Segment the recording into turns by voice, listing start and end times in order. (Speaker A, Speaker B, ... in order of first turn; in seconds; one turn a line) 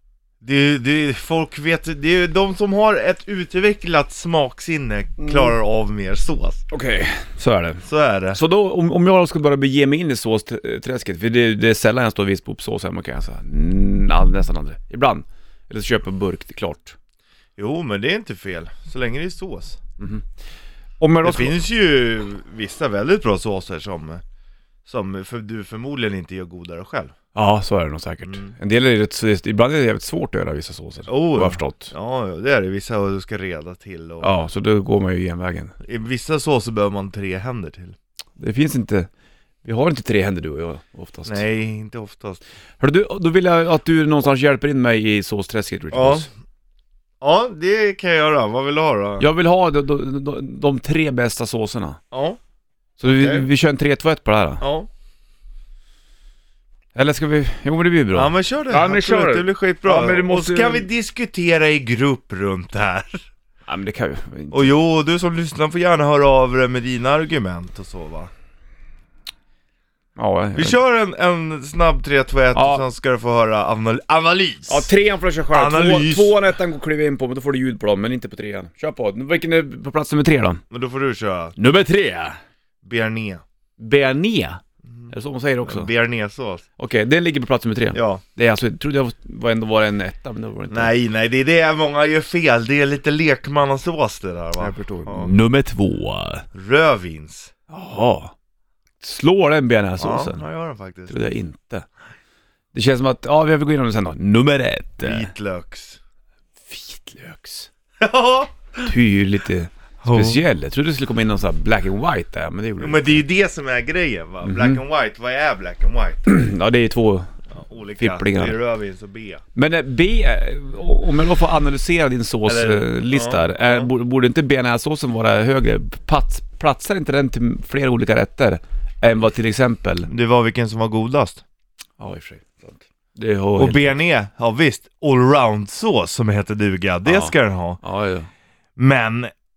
Speaker A: 0.4-6.7
Speaker B: 6.7-16.9
Speaker A: 7.8-8.4
Speaker A: 17.6-19.8
Speaker B: 20.0-20.2
Speaker B: 21.0-21.5
Speaker A: 21.2-24.2
Speaker A: 24.9-27.1
Speaker B: 27.3-31.9
Speaker A: 28.2-28.5
Speaker A: 31.1-34.3
Speaker B: 34.2-35.7
Speaker A: 35.8-38.0
Speaker B: 38.4-39.1
Speaker B: 39.6-41.5
Speaker A: 41.2-42.4
Speaker B: 42.8-46.3
Speaker A: 45.9-46.3
Speaker A: 47.2-49.2
Speaker B: 49.2-52.0
Speaker A: 52.1-52.4
Speaker B: 53.0-54.6
Speaker A: 53.0-53.5
Speaker A: 54.6-54.9
Speaker B: 56.9-60.9
Speaker A: 58.1-63.2
Speaker B: 63.7-64.6
Speaker A: 64.5-68.3
Speaker B: 70.2-70.8
Speaker A: 70.5-74.9
Speaker B: 72.5-72.9
Speaker B: 74.7-80.6
Speaker A: 75.5-76.3
Speaker A: 80.7-81.5
Speaker B: 81.5-82.4
Speaker A: 82.8-83.4
Speaker B: 83.8-85.9
Speaker A: 85.6-86.6
Speaker B: 86.8-90.9
Speaker A: 87.9-88.2
Speaker A: 90.7-95.3
Speaker B: 94.6-96.4
Speaker A: 96.5-97.5
Speaker B: 97.7-98.3
Speaker B: 99.0-100.4
Speaker A: 100.0-101.3
Speaker B: 101.1-101.9
Speaker B: 102.7-105.3
Speaker A: 105.0-106.0
Speaker B: 106.7-107.7
Speaker A: 108.0-108.9
Speaker B: 108.8-113.2
Speaker A: 110.0-110.4
Speaker A: 112.8-116.3
Speaker B: 114.4-114.8
Speaker B: 116.2-117.3
Speaker A: 117.5-119.4
Speaker B: 118.0-118.6
Speaker B: 119.5-130.1
Speaker A: 122.5-123.9
Speaker A: 130.1-131.4
Speaker B: 132.0-133.9
Speaker A: 133.6-137.8
Speaker B: 137.1-138.3
Speaker A: 138.8-139.3